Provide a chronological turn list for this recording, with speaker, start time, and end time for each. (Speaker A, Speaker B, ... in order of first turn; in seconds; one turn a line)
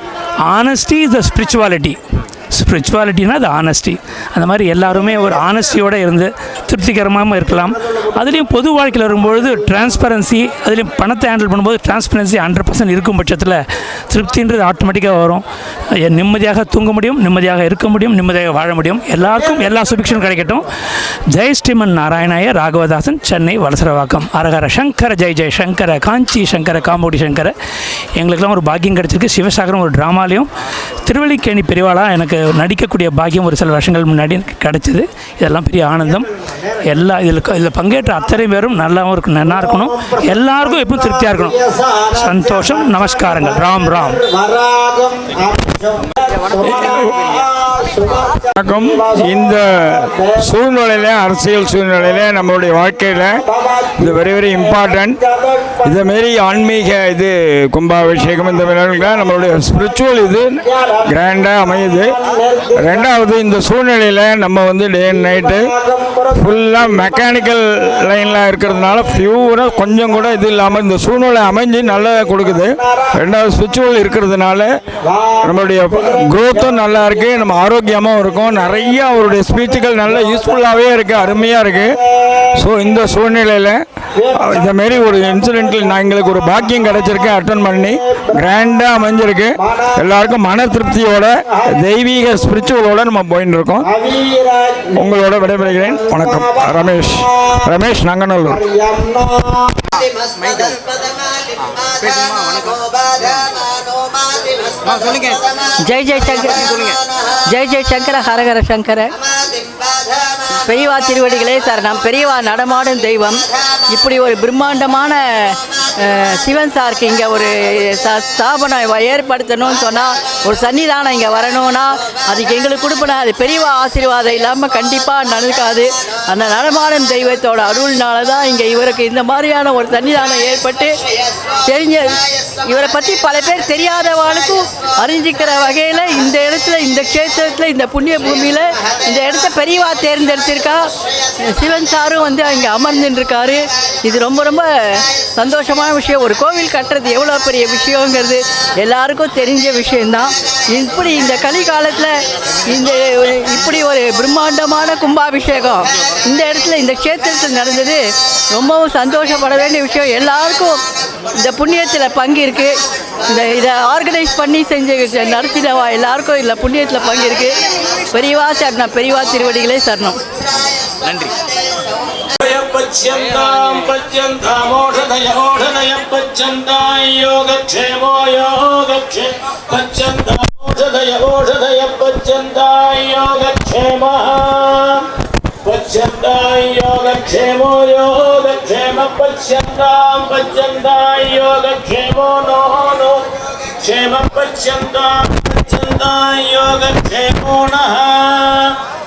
Speaker A: 0.5-2.0
Speaker A: 2.5-15.4
Speaker A: 16.1-20.7
Speaker A: 21.3-27.5
Speaker A: 28.2-30.5
Speaker A: 31.1-41.6
Speaker A: 42.1-44.2
Speaker B: 46.3-47.8
Speaker C: 48.6-53.4
Speaker C: 54.0-55.2
Speaker C: 55.8-62.1
Speaker C: 62.8-65.8
Speaker C: 66.3-74.7
Speaker C: 75.4-82.0
Speaker C: 82.6-83.8
Speaker C: 84.4-93.9
Speaker C: 95.0-98.7
Speaker B: 100.4-100.8
Speaker B: 101.9-103.4
Speaker B: 104.9-105.4
Speaker D: 105.9-106.6
Speaker B: 106.3-107.0
Speaker D: 107.5-109.1
Speaker D: 110.7-113.4
Speaker D: 113.9-130.9
Speaker D: 131.7-132.1
Speaker D: 132.7-140.8
Speaker D: 141.5-152.2
Speaker D: 152.7-158.0
Speaker D: 158.6-160.8
Speaker D: 161.4-162.7
Speaker D: 163.3-167.6
Speaker D: 168.1-170.2
Speaker B: 171.0-171.3
Speaker E: 172.4-185.0
Speaker E: 185.7-193.2
Speaker E: 193.8-198.8